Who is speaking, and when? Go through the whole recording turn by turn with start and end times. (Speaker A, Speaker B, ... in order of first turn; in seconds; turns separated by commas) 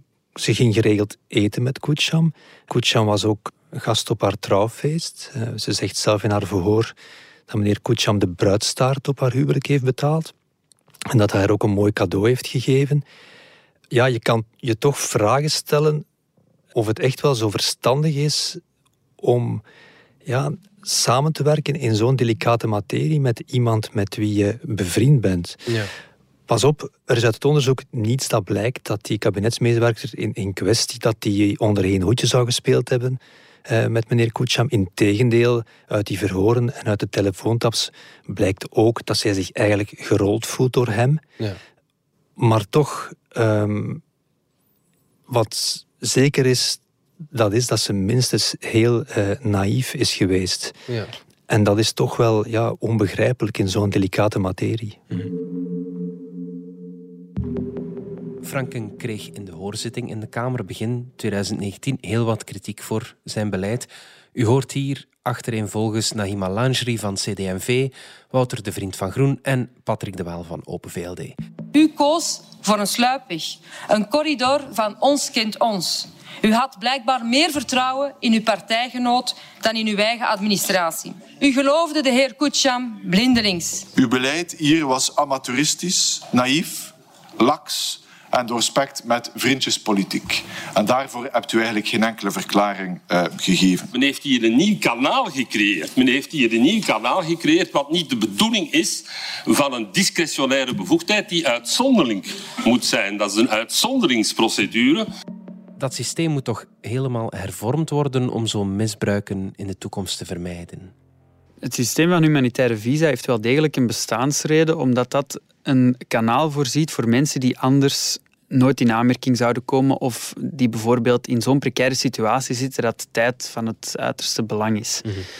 Speaker A: 0.3-7.0, Speaker A: 7.5-10.3, Speaker A: 11.1-13.1, Speaker A: 13.9-16.1, Speaker A: 16.7-18.6, Speaker A: 19.2-19.6, Speaker A: 20.2-25.6, Speaker A: 26.5-41.2, Speaker A: 42.4-44.0, Speaker A: 45.3-50.8, Speaker B: 50.9-51.1, Speaker A: 51.5-55.0, Speaker B: 58.4-71.4, Speaker C: 71.7-83.9, Speaker D: 83.9-93.9, Speaker E: 93.9-105.1, Speaker B: 105.8-110.9, Speaker F: 111.6-125.1